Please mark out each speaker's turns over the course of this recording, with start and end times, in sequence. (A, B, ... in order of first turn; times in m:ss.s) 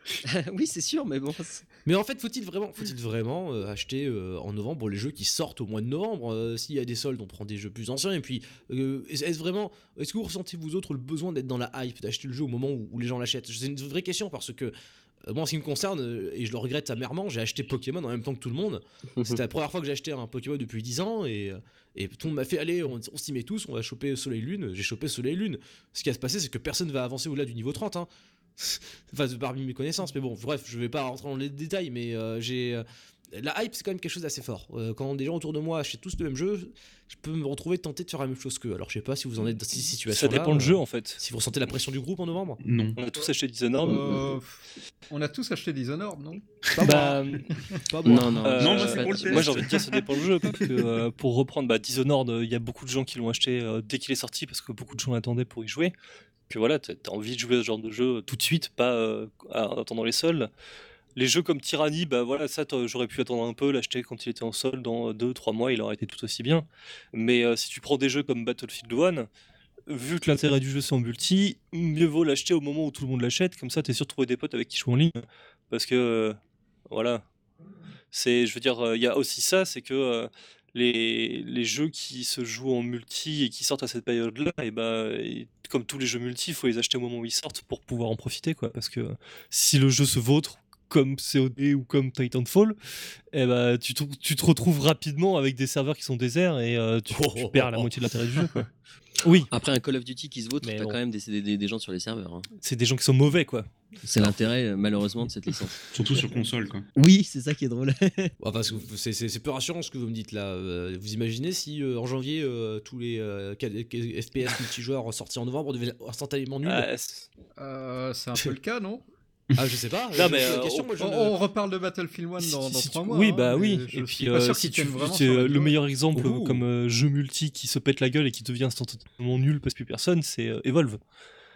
0:00.2-0:01.6 A
0:01.8-0:42.6 B
0:40.1-0:41.2 C
0:42.6-0:43.0 D
0:43.0-0:44.4 C
0:43.8-0:46.4 E
0:46.8-0:48.9 B
0:46.8-0:47.5 C
0:47.5-0:47.8 E
0:48.0-0:49.6 A
0:48.4-0:55.9 C
0:48.6-0:50.0 D
0:56.5-1:00.5 C
1:01.2-1:09.3 C
1:09.9-1:16.4 C
1:16.9-1:17.2 C
1:18.1-1:38.7 C
1:37.1-1:37.9 B
1:39.2-1:39.5 C
1:39.5-1:42.5 A
1:40.6-1:41.0 C
1:42.6-1:43.7 C
1:44.0-1:45.8 A
1:45.9-1:46.8 D
1:47.0-1:48.3 A
1:48.4-1:56.9 B
1:56.6-1:57.3 C
1:57.6-1:59.0 E
1:59.6-2:01.4 B
2:00.1-2:00.9 C
2:01.0-2:05.8 E
2:02.4-2:11.0 C
2:06.1-2:06.6 B